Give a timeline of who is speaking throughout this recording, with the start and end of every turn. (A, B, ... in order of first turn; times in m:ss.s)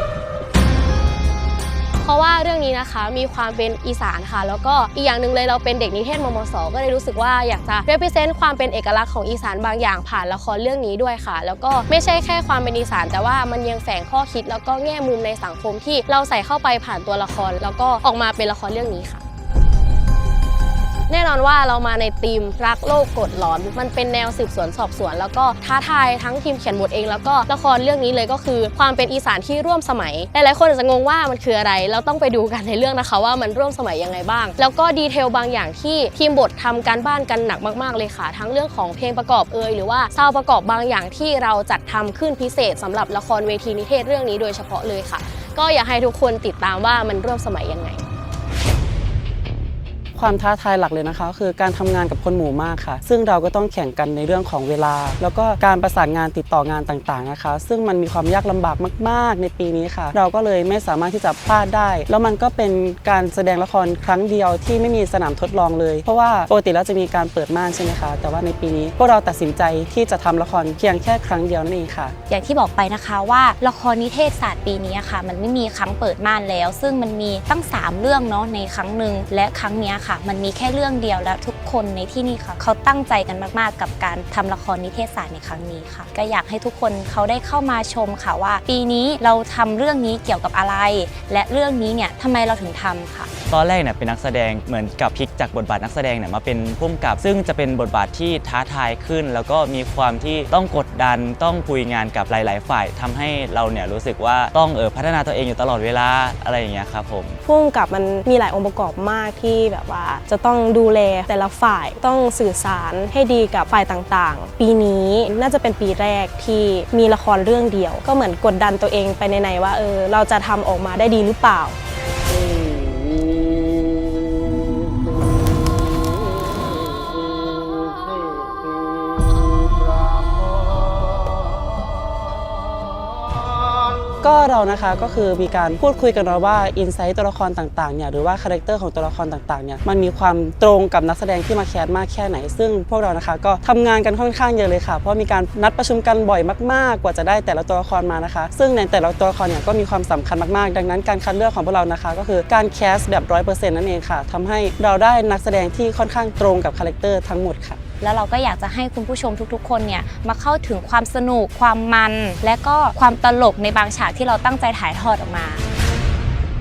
0:02.0-0:19.2 A
0:21.1-0:48.0 A
0:50.1-1:12.1 B
1:12.3-1:33.3 C
1:33.5-1:47.4 D
1:47.4-2:01.8 E
2:14.2-2:37.8 B
2:38.0-2:45.6 C